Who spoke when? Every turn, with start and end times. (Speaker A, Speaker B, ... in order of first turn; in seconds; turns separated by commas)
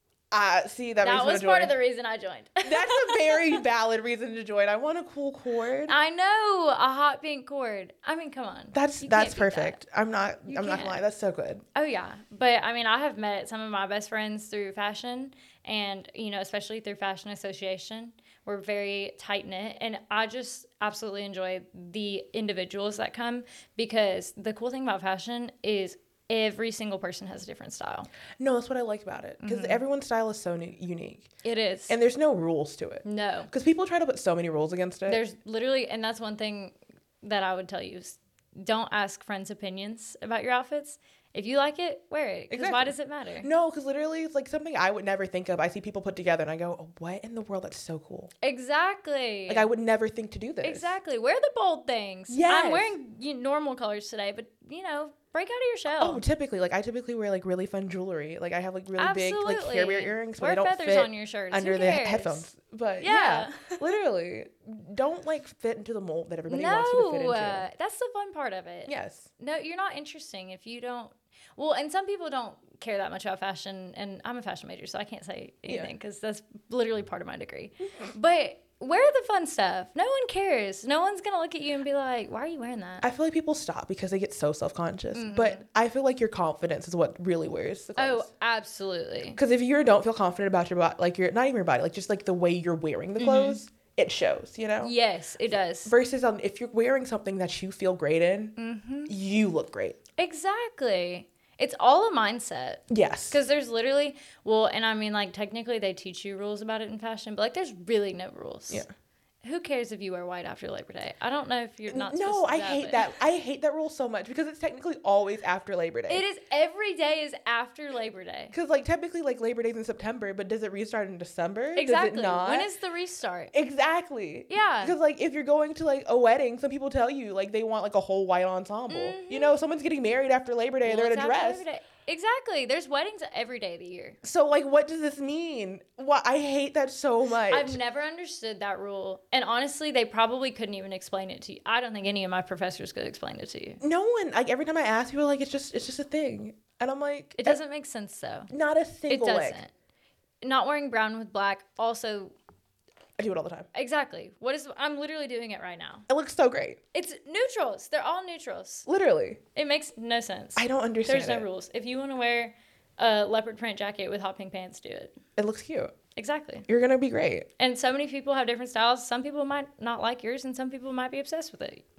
Speaker A: 0.3-1.8, Speaker B: 1.0-3.6, Speaker A: 2.6-5.9, Speaker B: 5.9-9.8, Speaker A: 8.7-11.6, Speaker B: 10.5-11.0, Speaker B: 11.7-28.1, Speaker A: 28.4-31.3, Speaker B: 29.4-29.8, Speaker B: 31.4-31.9, Speaker A: 31.9-35.2, Speaker B: 33.0-33.5, Speaker B: 35.1-43.5, Speaker A: 42.5-48.3, Speaker B: 48.4-49.7, Speaker A: 49.5-50.9, Speaker B: 50.6-56.2, Speaker A: 52.3-52.9, Speaker A: 56.0-67.7, Speaker B: 59.0-62.5, Speaker B: 63.0-63.9, Speaker B: 66.5-83.0, Speaker A: 68.9-69.3, Speaker A: 83.0-88.3, Speaker B: 85.1-85.6, Speaker B: 88.0-89.4, Speaker A: 89.3-94.9, Speaker B: 93.2-93.6, Speaker B: 94.8-95.9, Speaker A: 95.5-98.5, Speaker B: 98.6-99.1, Speaker A: 99.1-100.0, Speaker B: 100.2-108.8, Speaker A: 102.9-103.4, Speaker B: 109.4-113.1, Speaker A: 111.9-116.2, Speaker B: 116.1-118.5, Speaker A: 118.5-122.7, Speaker B: 121.8-123.5, Speaker A: 123.5-131.6, Speaker B: 124.5-125.0, Speaker B: 128.9-129.6, Speaker B: 130.8-134.2, Speaker A: 134.2-137.8, Speaker B: 137.5-143.8, Speaker A: 143.8-147.6, Speaker B: 147.4-148.5, Speaker A: 148.5-149.6, Speaker B: 149.1-149.7, Speaker B: 150.4-152.3, Speaker A: 153.2-153.7, Speaker B: 153.7-156.1, Speaker A: 156.1-156.8, Speaker B: 156.9-158.9, Speaker A: 158.9-159.4, Speaker B: 159.5-165.2, Speaker A: 160.6-161.4, Speaker A: 165.4-165.9, Speaker B: 166.2-166.7, Speaker A: 166.7-167.5, Speaker B: 167.6-171.8